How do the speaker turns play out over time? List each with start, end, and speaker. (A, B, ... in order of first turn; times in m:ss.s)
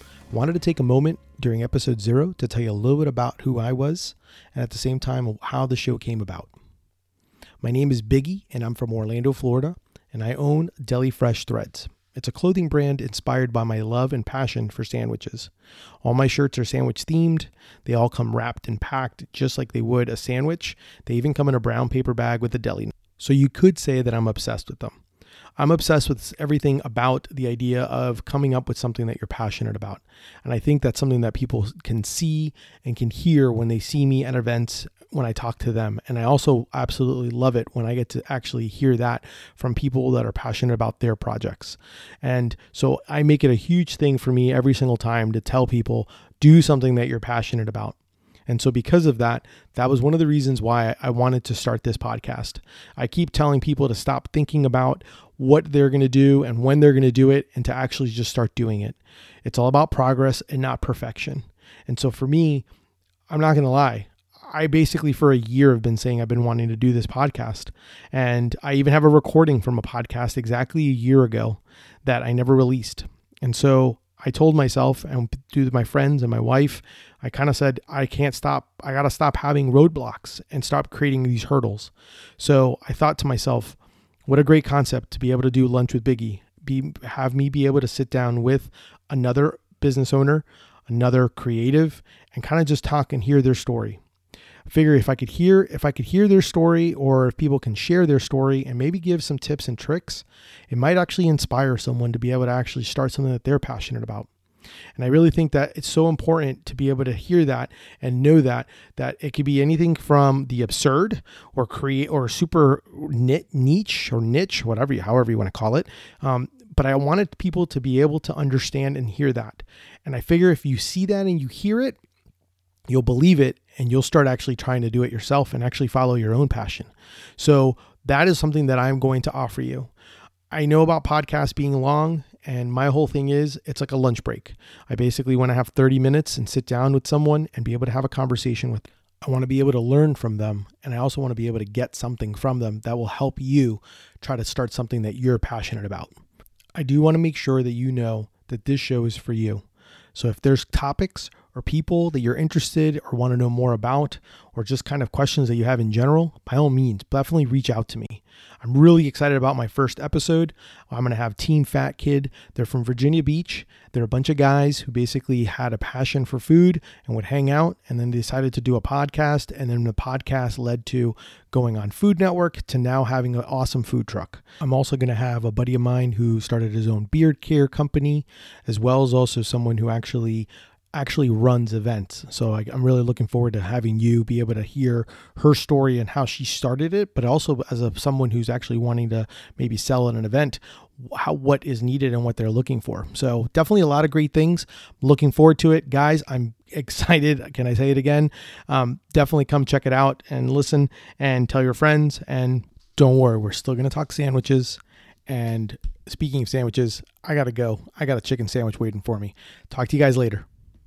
0:00.3-0:06.5 A
0:07.6-0:15.5 A
0:16.0-0:25.0 A
0:25.6-0:48.0 A
0:48.5-1:02.7 A
1:03.3-1:34.0 A
1:34.7-1:44.3 A
1:45.0-2:02.0 A
2:02.9-2:09.9 A
2:10.5-2:26.2 A
2:26.8-3:30.5 A